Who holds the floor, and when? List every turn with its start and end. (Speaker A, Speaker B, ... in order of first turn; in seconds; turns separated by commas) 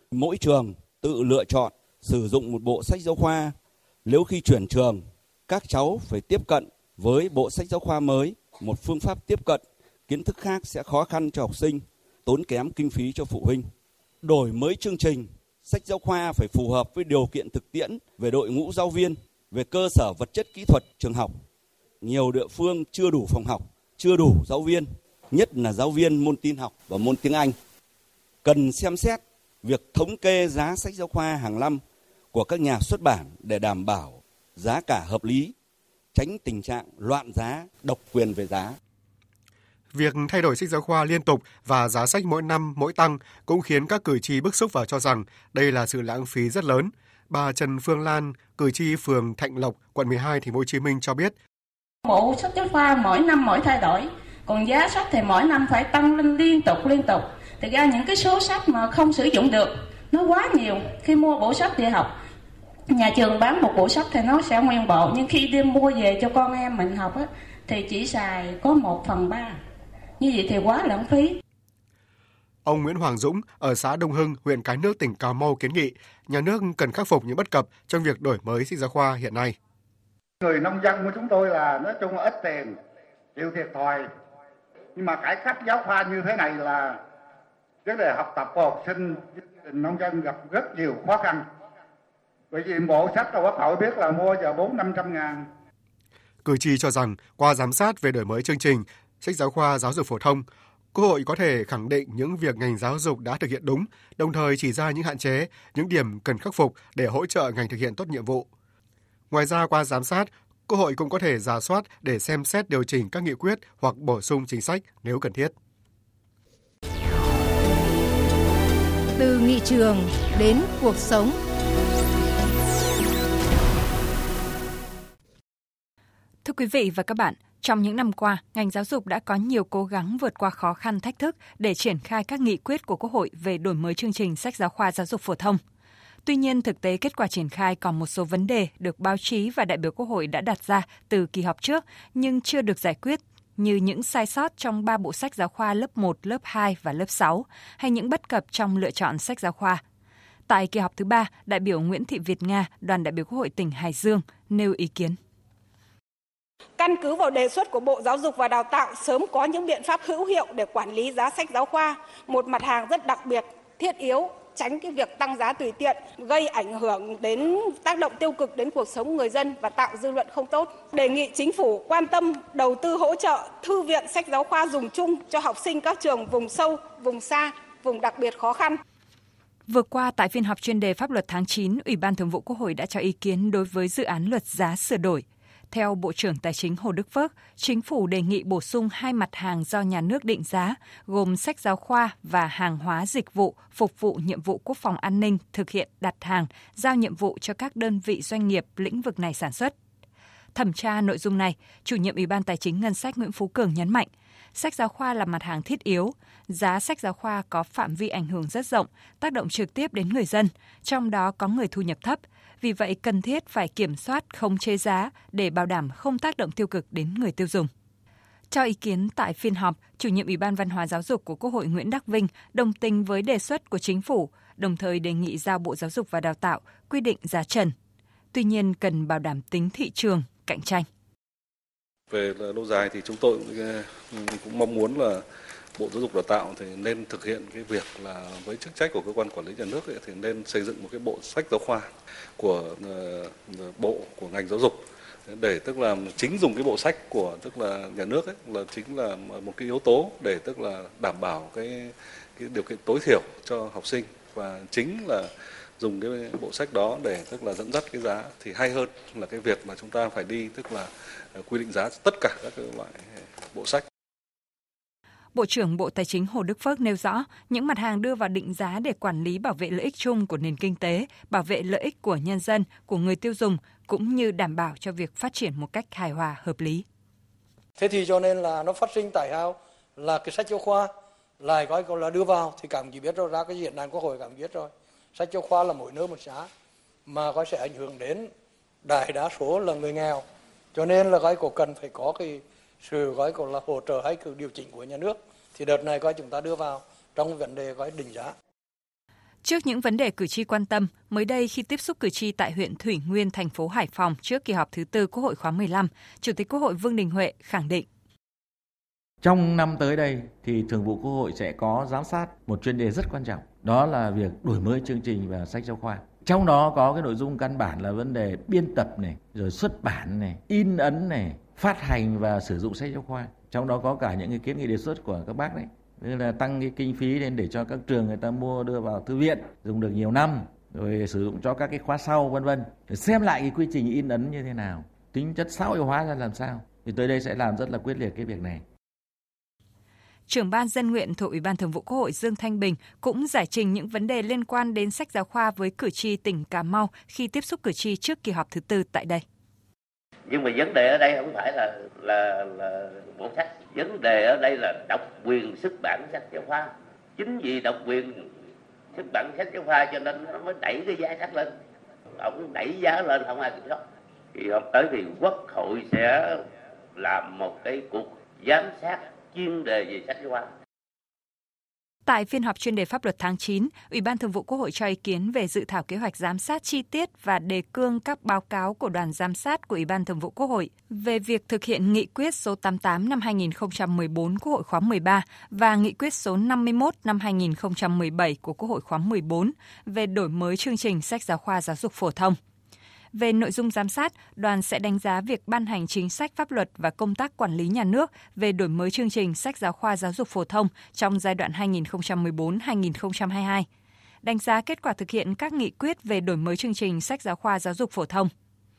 Speaker A: 0.1-13.7, Speaker A: 14.2-21.4, Speaker A: 22.0-27.6, Speaker A: 28.4-31.8, Speaker A: 32.3-35.5, Speaker A: 36.1-38.8, Speaker B: 39.9-51.4, Speaker C: 52.0-62.1, Speaker C: 62.9-69.6, Speaker C: 70.2-71.4, Speaker B: 72.7-79.5, Speaker D: 80.4-82.7, Speaker D: 83.4-84.1, Speaker D: 85.0-87.0, Speaker D: 87.9-91.4, Speaker D: 92.5-95.5, Speaker B: 96.5-108.5, Speaker B: 109.3-115.5, Speaker E: 119.2-121.4, Speaker F: 126.4-135.6, Speaker F: 136.2-149.8, Speaker F: 150.5-155.2, Speaker G: 156.8-178.8, Speaker F: 179.7-199.7, Speaker F: 200.6-217.7, Speaker F: 218.5-227.7, Speaker F: 228.3-230.9, Speaker H: 232.1-235.2, Speaker H: 235.8-241.9, Speaker H: 242.4-255.3, Speaker H: 255.8-263.9, Speaker F: 265.3-276.8, Speaker I: 277.8-280.9, Speaker I: 281.4-286.5, Speaker I: 287.1-288.3, Speaker I: 288.8-298.3, Speaker F: 299.4-307.9, Speaker J: 309.2-338.6, Speaker F: 340.3-349.2, Speaker K: 350.3-358.3, Speaker K: 358.9-361.5, Speaker K: 362.2-363.8, Speaker K: 364.4-366.3, Speaker K: 367.0-370.4, Speaker F: 372.1-392.4, Speaker F: 393.1-403.7, Speaker F: 404.2-408.3